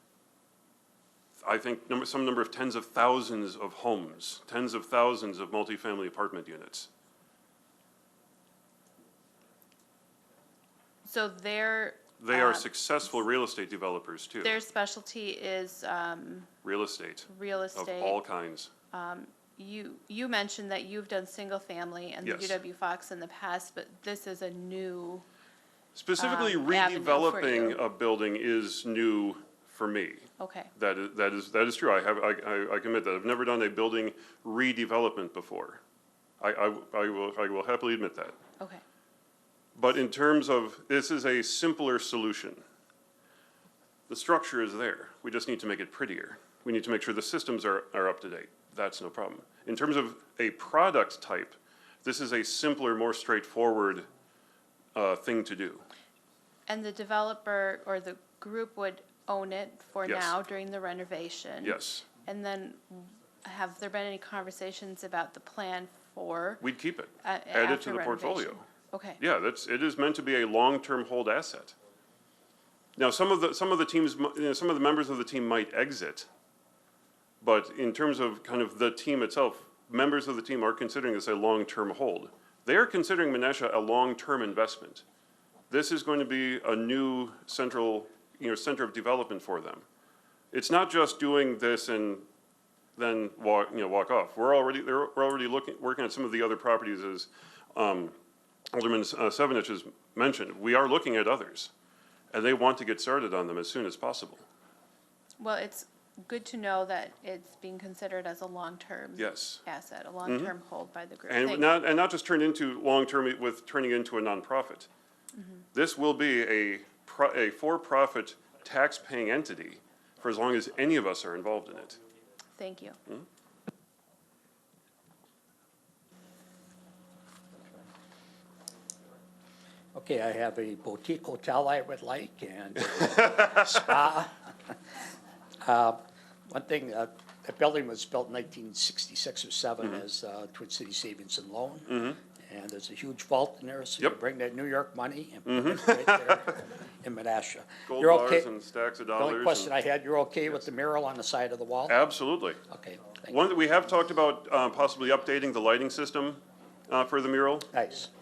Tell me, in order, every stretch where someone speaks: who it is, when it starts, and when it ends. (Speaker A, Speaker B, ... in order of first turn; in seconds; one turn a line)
Speaker A: 1.4-6.9
Speaker B: 11.0-12.7
Speaker A: 12.2-14.6
Speaker B: 14.4-16.5
Speaker A: 16.6-18.7
Speaker B: 17.3-18.2
Speaker B: 18.9-25.2
Speaker A: 22.2-22.6
Speaker A: 25.9-35.8
Speaker B: 26.2-27.8
Speaker B: 30.4-30.7
Speaker A: 36.4-38.4
Speaker A: 39.7-42.6
Speaker A: 44.1-54.1
Speaker A: 54.9-55.8
Speaker B: 56.7-66.6
Speaker A: 60.0-60.3
Speaker A: 61.6-62.0
Speaker A: 66.6-68.6
Speaker B: 67.2-69.2
Speaker A: 69.2-71.7
Speaker A: 73.0-76.3
Speaker A: 77.4-85.0
Speaker A: 85.7-89.8
Speaker A: 90.5-92.2
Speaker A: 93.0-98.1
Speaker A: 98.7-101.7
Speaker A: 102.3-104.4
Speaker B: 105.4-111.7
Speaker A: 109.2-109.6
Speaker A: 110.2-110.5
Speaker A: 111.3-114.9
Speaker A: 115.7-122.0
Speaker B: 122.5-123.0
Speaker C: 129.9-134.5
Speaker C: 135.6-148.5
Speaker A: 141.9-142.2
Speaker A: 145.5-146.2
Speaker A: 147.9-149.7
Speaker C: 149.2-152.0
Speaker A: 151.8-152.6
Speaker C: 152.7-153.4
Speaker A: 153.2-157.7
Speaker C: 157.7-158.1